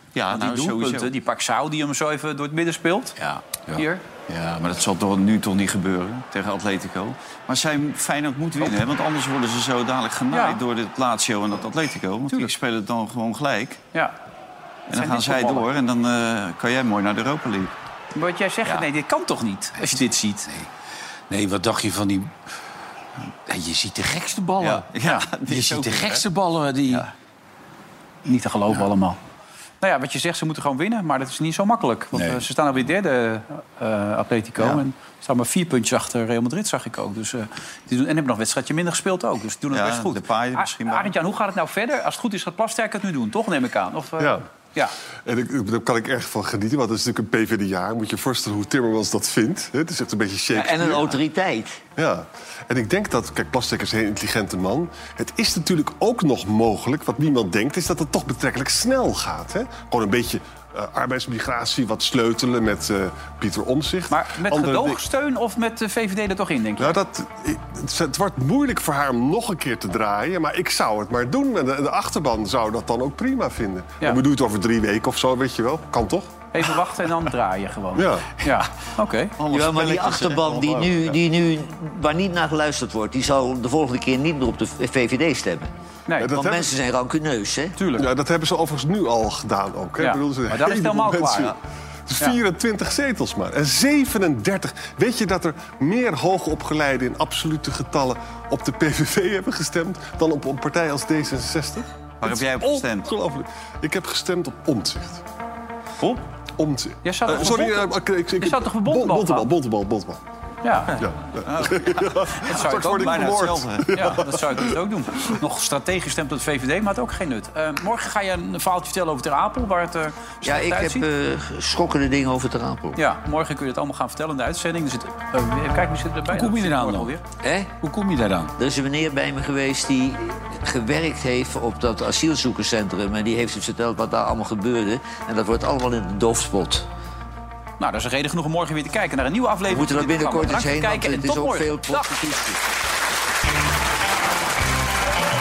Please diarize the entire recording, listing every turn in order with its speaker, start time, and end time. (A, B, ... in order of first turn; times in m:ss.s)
0:00.2-0:01.1 A
0:00.3-0:03.2 B
0:03.6-0:03.8 C
0:03.8-0:04.0 B
0:04.3-0:13.8 A
0:10.3-0:10.6 B
0:14.9-0:17.8 A
0:14.9-0:15.7 B
0:18.1-0:20.5 B
0:21.3-0:22.3 C
0:23.5-0:24.9 C
0:24.6-0:26.3 A
0:25.4-0:27.1 C
0:28.3-0:29.2 B
0:29.8-0:44.9 B
0:32.1-0:32.4 C
0:34.6-0:34.8 A
0:39.7-0:41.1 A
0:45.2-0:51.2 D
0:50.5-0:51.8 E
0:52.0-1:05.0 D
1:04.1-1:07.0 B
1:06.8-1:16.3 D
1:16.5-1:19.4 B
1:18.0-1:18.5 D
1:19.4-1:21.2 A
1:19.5-1:25.7 E
1:26.1-1:26.4 B
1:26.2-1:26.7 D
1:26.3-1:27.8 E
1:27.8-1:28.1 B
1:28.0-1:45.2 D
1:30.0-1:31.6 B
1:42.2-1:43.1 A
1:46.6-1:50.2 D
1:47.0-1:49.5 B
1:50.6-1:51.0 B
1:50.9-1:54.8 D
1:51.4-1:54.1 A
1:52.4-2:01.0 B
2:00.4-2:03.0 E
2:03.0-2:07.2 B
2:06.3-2:07.2 C
2:07.4-2:07.7 E
2:07.8-2:08.5 C
2:08.6-2:16.9 E
2:17.8-2:22.2 B
2:19.7-2:22.6 E